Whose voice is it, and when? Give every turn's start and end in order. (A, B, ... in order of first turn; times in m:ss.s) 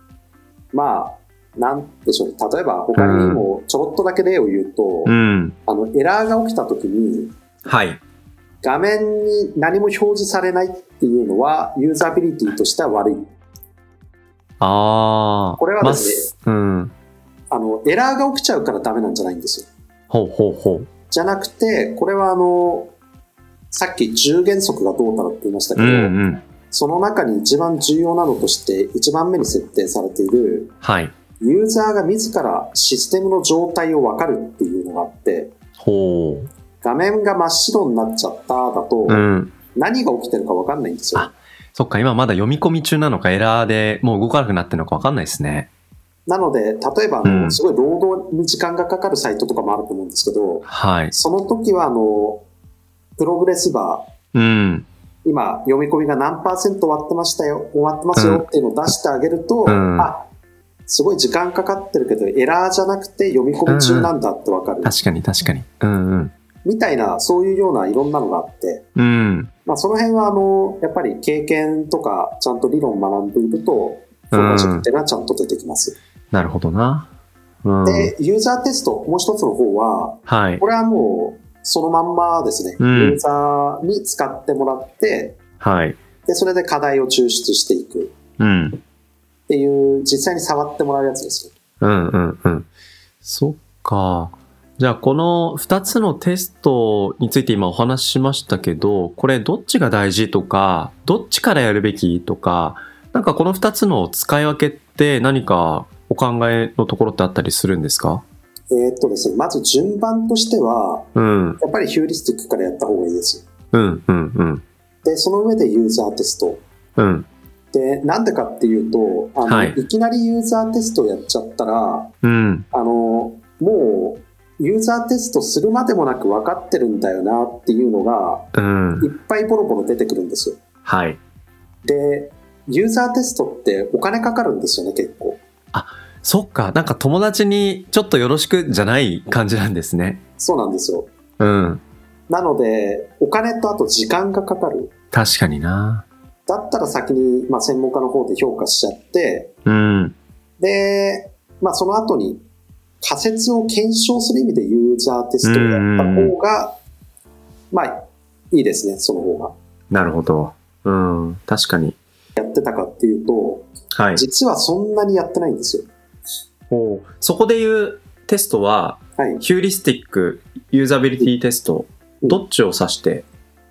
0:00.7-0:05.1 A
0:02.9-0:03.4 B
0:05.0-0:05.6 B
0:05.6-0:07.3 A
0:07.6-0:08.0 B
0:08.6-0:13.3 A
0:14.6-0:16.9 B
0:15.6-0:16.3 A
0:17.5-0:19.7 A
0:20.1-0:20.9 B
0:21.1-0:22.9 A
0:23.7-0:26.1 A
0:25.8-0:26.4 B
0:26.7-0:30.7 A
0:30.8-0:31.1 B
0:31.4-0:35.5 A
0:35.8-0:36.5 B
0:36.8-0:41.3 A
0:39.1-0:39.5 B
0:41.1-0:45.7 B
0:46.3-0:52.4 A
0:47.2-0:47.6 B
0:50.6-0:51.1 B
0:53.2-0:54.1 A
0:54.3-0:54.9 B
0:55.2-1:00.3 A
0:58.2-0:58.4 B
0:59.6-1:00.1 B
1:00.9-1:05.0 A
1:03.7-1:04.1 B
1:04.8-1:06.3 B
1:06.6-1:08.8 A
1:08.9-1:09.5 B
1:09.6-1:16.0 A
1:14.3-1:14.8 B
1:16.3-1:17.1 B
1:17.6-1:18.1 B
1:17.8-1:25.4 A
1:20.3-1:20.6 B
1:22.8-1:23.2 B
1:25.6-1:26.0 B
1:26.2-1:28.1 A
1:28.4-1:28.8 B
1:29.5-1:31.5 A
1:31.8-1:32.7 B
1:33.2-1:48.2 B
1:48.7-1:53.4 A
1:51.1-1:51.6 B
1:53.7-1:54.6 B
1:55.0-1:56.6 A
1:57.0-1:57.3 B
1:57.7-2:02.1 A
1:59.4-1:59.8 B
2:02.2-2:02.7 B
2:02.7-2:08.5 A
2:08.5-2:09.1 B
2:09.0-2:10.6 A
2:10.8-2:11.2 B
2:11.8-2:15.4 A
2:15.7-2:20.2 B
2:20.4-2:21.1 A
2:21.4-2:21.8 B
2:22.3-2:24.9 A
2:25.1-2:26.0 B
2:26.5-2:29.5 A
2:29.6-2:30.2 B
2:30.6-2:32.4 A
2:33.0-2:36.8 A
2:35.4-2:36.3 B
2:37.7-2:39.5 A
2:39.9-2:42.0 B
2:42.4-2:45.9 A
2:43.9-2:44.2 B
2:46.7-2:53.2 B
2:49.2-2:49.4 A